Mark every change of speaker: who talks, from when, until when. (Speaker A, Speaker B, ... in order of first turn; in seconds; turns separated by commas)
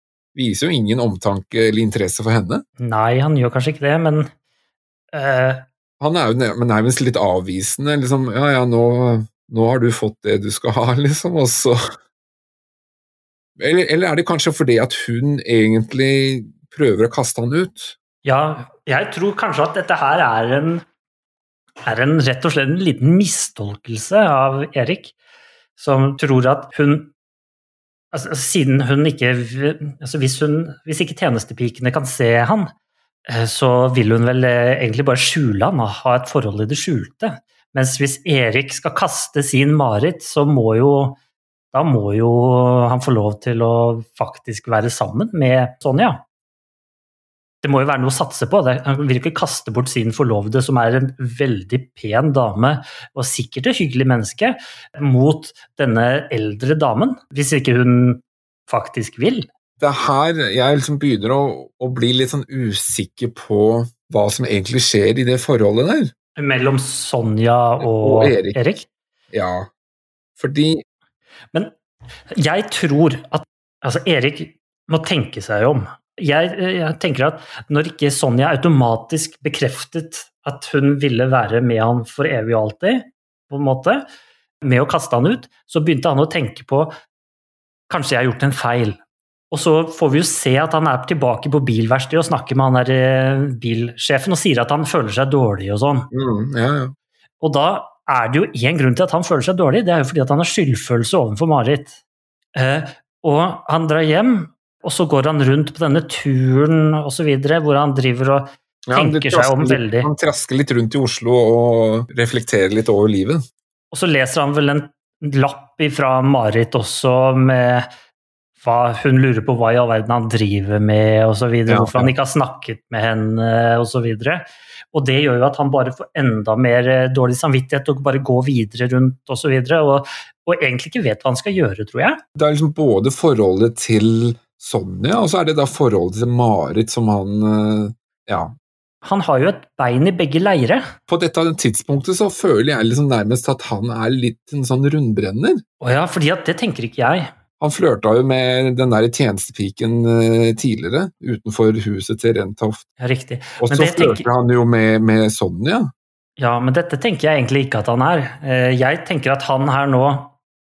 Speaker A: 0.3-2.6, Speaker B: 2.8-4.3, Speaker B: 5.1-5.6, Speaker A: 6.0-11.9, Speaker A: 13.6-18.0, Speaker B: 18.2-20.8, Speaker B: 21.8-25.1, Speaker B: 25.8-27.1, Speaker B: 28.1-32.7, Speaker B: 33.3-41.2, Speaker B: 41.7-46.2, Speaker B: 47.6-59.5, Speaker A: 59.8-66.1, Speaker B: 66.4-68.9, Speaker A: 67.8-68.6, Speaker A: 69.3-69.7, Speaker A: 70.4-70.8, Speaker B: 72.3-84.0, Speaker B: 84.6-86.9, Speaker B: 87.9-89.0, Speaker B: 89.5-96.1, Speaker A: 96.1-96.9, Speaker B: 97.4-102.0, Speaker B: 102.5-110.1, Speaker A: 108.9-113.4, Speaker B: 113.9-117.9, Speaker B: 118.6-132.2, Speaker A: 121.7-122.1, Speaker A: 132.3-138.5, Speaker B: 139.0-140.8, Speaker A: 141.1-145.6, Speaker B: 145.8-147.3, Speaker A: 147.6-152.8, Speaker B: 153.0-154.2, Speaker A: 153.6-155.9, Speaker B: 156.4-160.3